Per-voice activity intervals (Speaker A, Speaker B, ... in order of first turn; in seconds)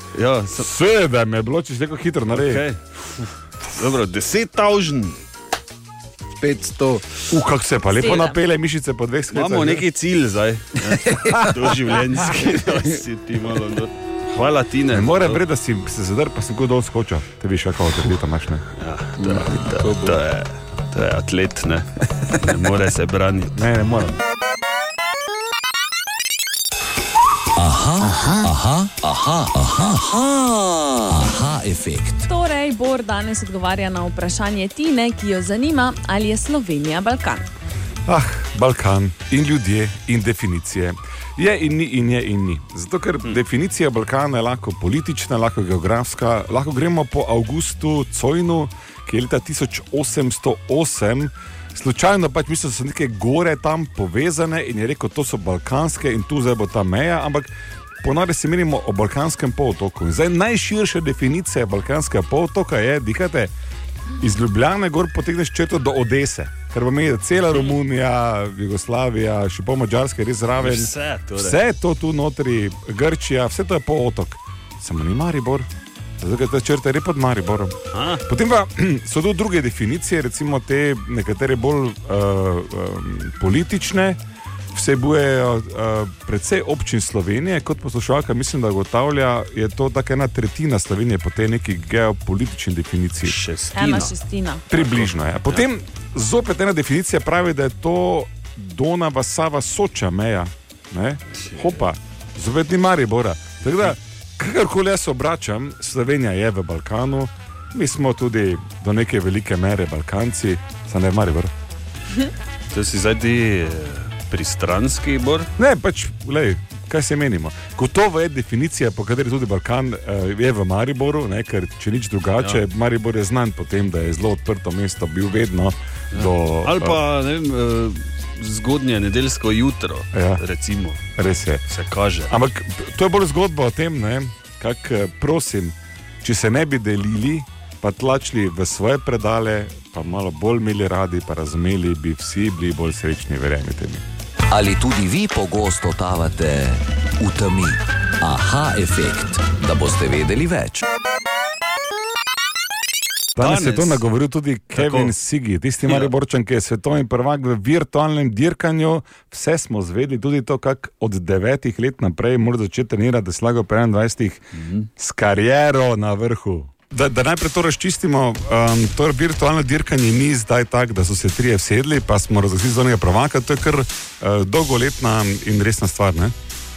Speaker A: 0.1-0.7, 2.3-5.2, 9.3-15.4, 18.8-23.6, 70.6-71.6, 77.9-78.2, 93.2-94.1, 94.7-95.6, 101.4-101.8, 112.7-115.5, 126.1-131.0, 131.7-132.3, 153.4-154.0, 154.7-155.1, 155.9-156.1, 164.6-164.9
Speaker B: 0.6-2.6, 7.3-9.8, 14.9-18.6, 19.3-19.9, 23.6-24.2, 28.0-28.4, 38.0-57.5, 58.0-63.5, 64.2-75.7, 76.2-84.2, 84.7-93.4, 94.7-111.5, 115.6-127.0, 130.1-130.4, 131.2-131.6, 132.3-144.0, 153.3-164.4, 165.0-176.3
Speaker C: 6.4-7.0, 10.8-13.0, 19.2-20.1
Speaker D: 7.9-8.4, 32.2-37.5, 93.7-94.6
Speaker E: 27.6-32.2, 144.5-150.8